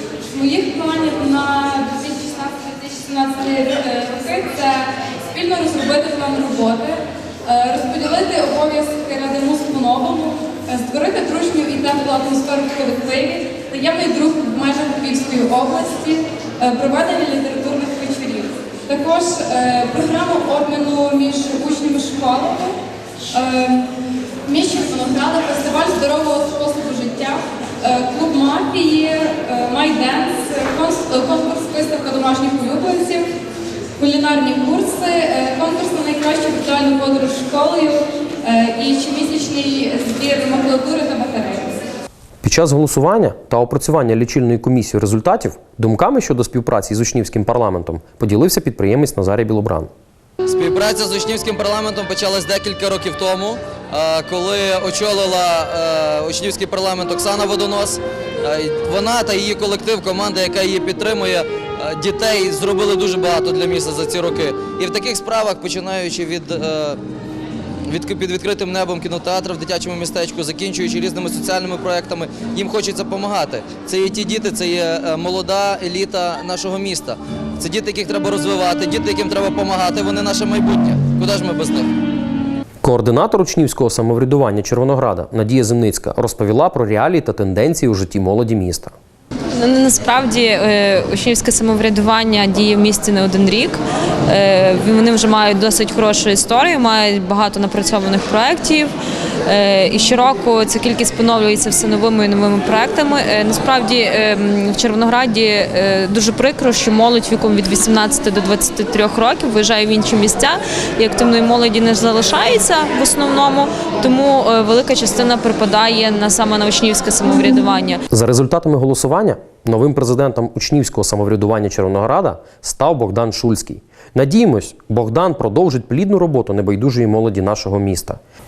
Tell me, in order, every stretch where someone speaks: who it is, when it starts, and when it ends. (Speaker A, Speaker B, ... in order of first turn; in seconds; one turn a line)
Speaker A: 0.3-22.8
Speaker A: 23.3-23.9
Speaker A: 24.4-33.2
Speaker A: 34.0-41.7
Speaker B: 42.4-49.9
Speaker C: 50.5-67.0
Speaker C: 67.8-81.9
Speaker B: 82.8-88.9
Speaker D: 89.5-98.9
Speaker D: 99.5-118.0
Speaker B: 118.1-128.2